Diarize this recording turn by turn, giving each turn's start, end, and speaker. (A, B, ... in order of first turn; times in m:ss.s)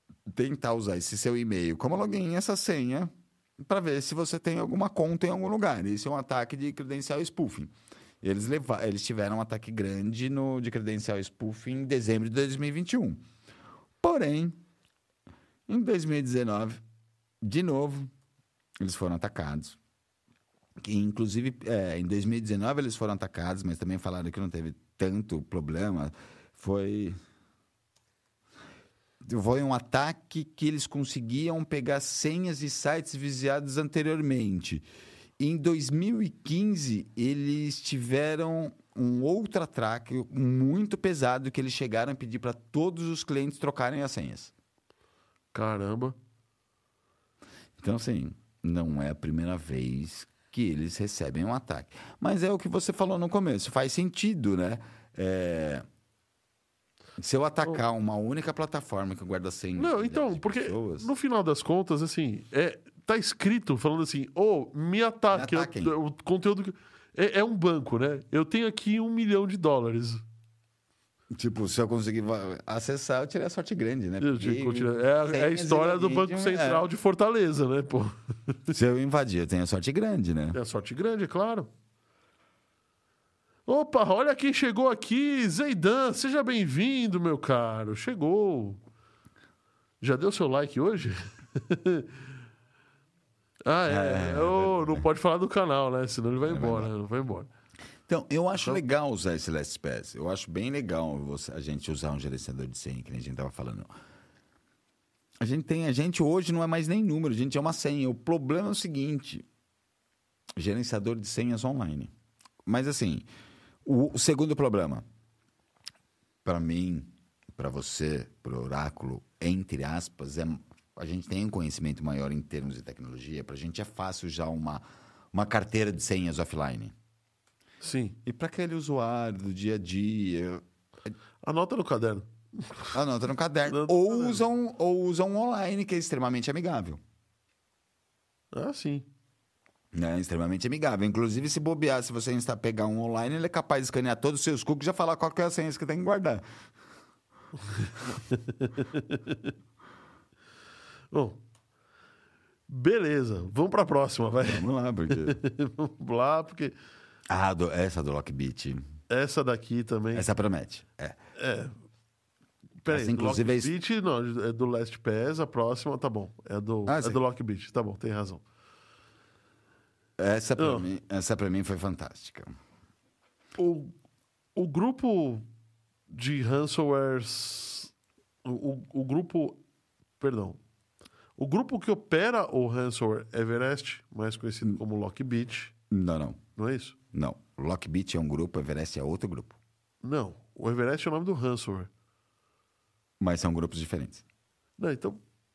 0:00.3-0:13.2 A
0:14.0-0:14.6 A
0:15.7-0:16.8 A
0:17.4-0:18.1 A
0:18.8-0:19.8 A
0:20.8-0:27.2 A
0:29.2-0:34.8 A
0:35.4-0:44.5 A
0:45.5-0:46.2 B
0:47.8-0:55.8 A
0:57.2-1:01.1 A
0:59.8-1:10.2 B
1:05.3-1:05.9 A
1:11.3-1:16.8 A
1:14.2-1:18.1 B
1:18.7-1:20.6 A
1:20.5-1:21.7 B
1:23.6-1:28.8 B
1:30.0-1:32.1 B
1:33.6-1:37.5 B
1:33.9-1:35.0 A
1:36.5-1:36.9 A
1:38.1-1:43.9 A
1:45.4-1:49.4 A
1:50.6-1:52.1 A
1:52.6-1:53.2 A
1:53.8-1:55.0 A
1:56.4-2:06.9 A
2:07.8-2:08.2 B
2:08.2-2:10.6 A
2:11.4-2:12.9 B
2:12.9-2:17.0 A
2:13.7-2:14.4 B
2:18.5-2:19.1 B
2:19.9-2:26.4 A
2:28.3-2:29.5 B
2:31.1-2:31.4 B
2:32.7-2:36.7 B
2:34.4-2:35.4 A
2:37.3-2:38.8 A
2:39.1-2:40.3 B
2:40.1-2:41.2 A
2:41.4-2:41.8 B
2:42.8-2:48.4 B
2:42.9-2:43.7 A
2:46.9-2:47.2 A
2:50.2-2:52.5 A
2:50.6-2:50.9 B
2:53.6-2:53.9 B
2:54.5-2:55.4 B
2:56.1-2:57.9 B
2:58.4-2:59.6 B
3:00.2-3:00.6 B
3:01.4-3:05.7 B
3:05.9-3:06.4 A
3:06.6-3:07.0 B
3:07.1-3:09.5 A
3:10.0-3:11.9 B
3:13.2-3:14.2 A
3:14.8-3:15.2 B